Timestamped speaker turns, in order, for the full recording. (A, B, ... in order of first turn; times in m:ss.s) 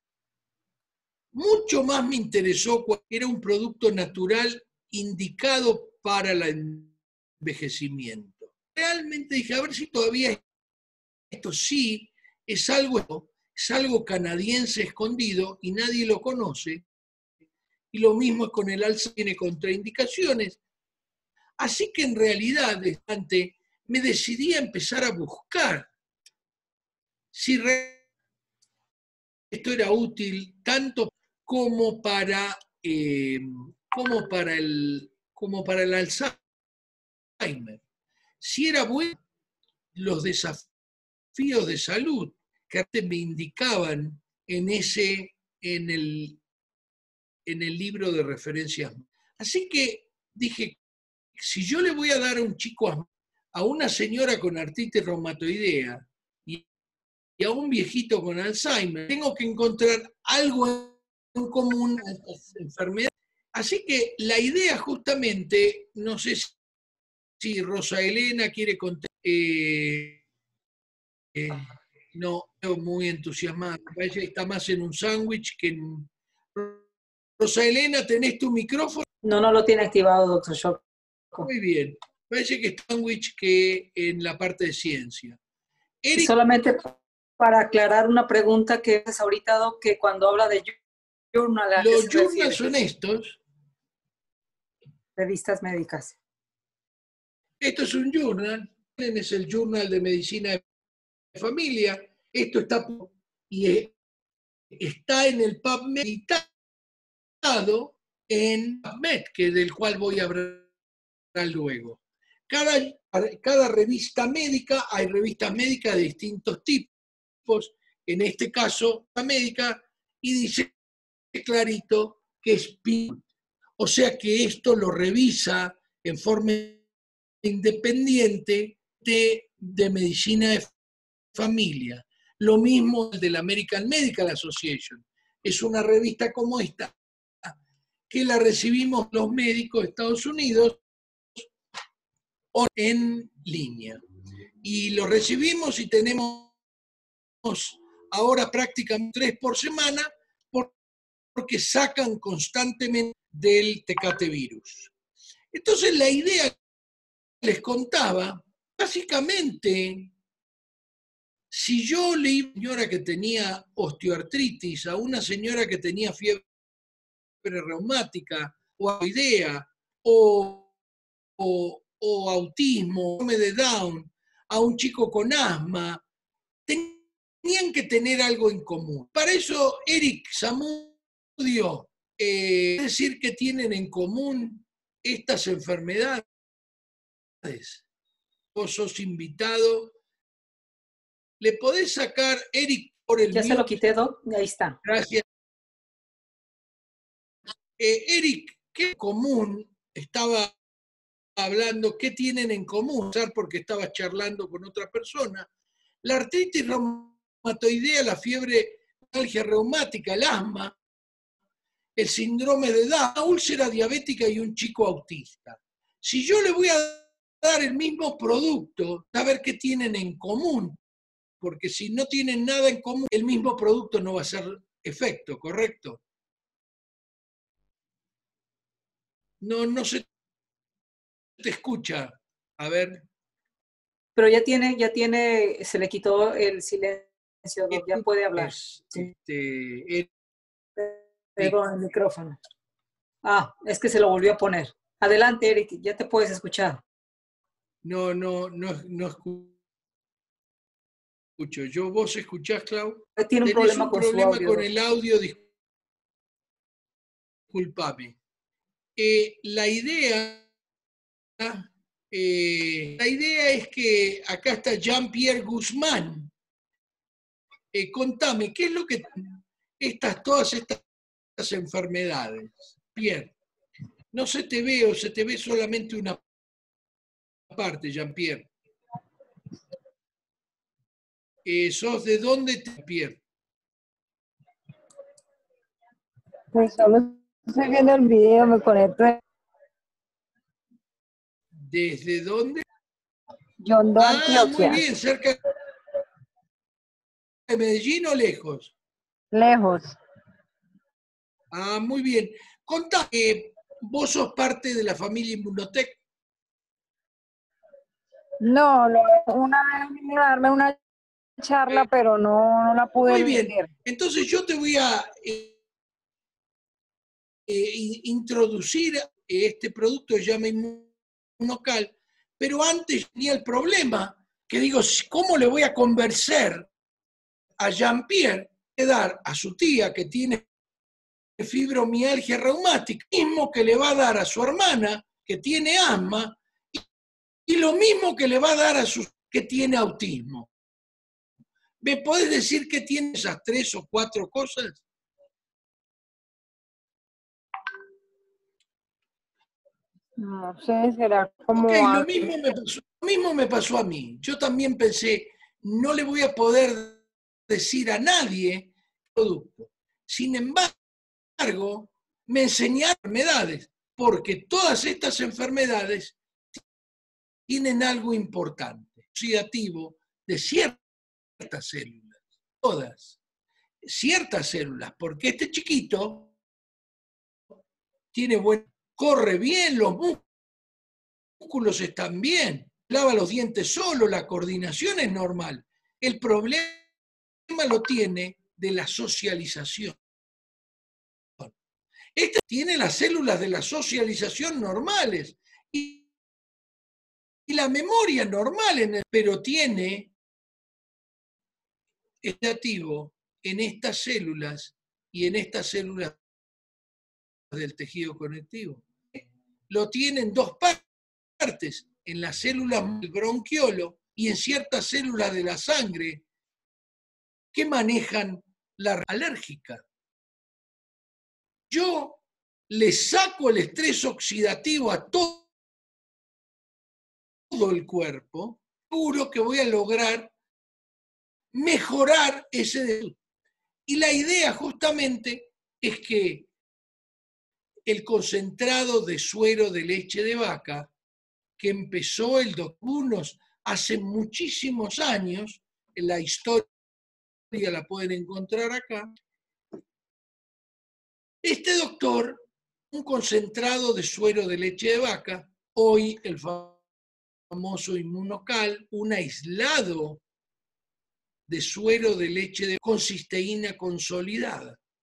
0:01.3-0:10.4 A
0:11.3-0:16.8 A
0:17.9-0:20.6 A
0:21.6-0:25.9 A
0:27.3-0:28.0 A
0:29.5-0:36.4 A
0:37.4-0:37.8 A
0:38.4-0:39.2 A
0:39.9-0:40.7 A
0:41.3-0:46.4 A
0:47.4-0:50.8 A
0:51.4-0:56.6 A
0:57.4-1:06.5 A
1:07.4-1:10.2 A
1:11.3-1:16.8 A
1:17.4-1:19.0 A
1:19.2-1:20.8 B
1:21.4-1:25.4 A
1:26.0-1:26.3 A
1:26.2-1:30.8 B
1:31.3-1:32.6 B
1:31.8-1:33.4 A
1:35.2-1:36.2 B
1:37.6-1:40.6 A
1:41.3-1:43.9 A
1:44.7-1:46.5 A
1:47.4-1:50.7 A
1:51.3-1:56.9 A
1:57.4-2:00.7 A
2:01.3-2:03.2 A
2:03.8-2:06.8 A
2:07.4-2:10.7 A
2:11.3-2:17.6 A
2:18.1-2:20.8 A
2:22.5-2:24.0 A
2:24.6-2:26.5 A
2:27.4-2:30.7 A
2:31.3-2:34.9 A
2:35.5-2:36.6 A
2:37.4-2:40.1 A
2:41.5-2:46.4 A
2:47.4-2:50.7 A
2:51.4-2:56.0 A
2:56.7-3:06.2 A
3:07.4-3:07.8 A
3:08.5-3:10.0 A
3:11.4-3:13.8 A
3:13.3-3:14.8 B
3:14.8-3:15.2 A
3:17.8-3:20.6 A
3:21.4-3:25.5 A
3:26.0-3:30.8 A
3:32.0-3:40.8 A
3:41.4-3:46.0 A
3:49.4-3:50.0 A
3:51.4-3:53.0 A
3:54.2-3:59.1 B
3:57.7-4:00.1 A
4:00.8-4:02.4 B
4:03.2-4:06.8 B
4:07.8-4:09.6 A
4:11.4-4:15.4 A
4:13.2-4:14.7 B
4:17.5-4:18.2 A
4:19.0-4:20.4 A
4:21.4-4:26.3 A
4:27.7-4:30.8 A
4:31.4-4:33.3 A
4:34.1-4:36.2 A
4:37.5-4:38.5 A
4:41.4-4:43.2 A
4:46.5-4:49.2 C
4:51.6-4:52.6 A
4:53.6-4:54.8 C
4:54.0-4:55.4 A
4:57.5-4:58.7 A
4:59.3-5:00.0 C
5:01.5-5:06.0 A
5:08.4-5:10.8 C
5:11.4-5:13.7 C
5:13.0-5:15.5 A
5:17.5-5:26.7 A
5:27.6-5:30.4 A
5:31.4-5:36.8 A
5:37.5-5:40.5 A
5:41.8-5:44.8 A
5:50.2-5:52.2 C
5:51.5-6:00.7 A
6:01.4-6:06.6 A
6:07.5-6:10.8 A
6:11.4-6:13.2 A
6:13.8-6:16.3 A
6:18.1-6:20.2 A
6:21.4-6:26.8 A
6:27.5-6:30.0 A
6:32.1-6:36.0 A
6:37.5-6:40.1 A
6:42.2-6:46.2 A
6:47.5-6:50.8 A
6:51.4-6:56.2 A
6:57.5-6:59.8 A
7:01.7-7:05.5 A
7:07.5-7:10.3 A
7:11.5-7:13.2 A
7:13.9-7:16.5 A
7:17.9-7:20.9 A
7:21.6-7:26.7 A
7:27.5-7:29.1 A
7:31.4-7:36.8 A
7:37.5-7:40.2 A
7:41.5-7:44.8 A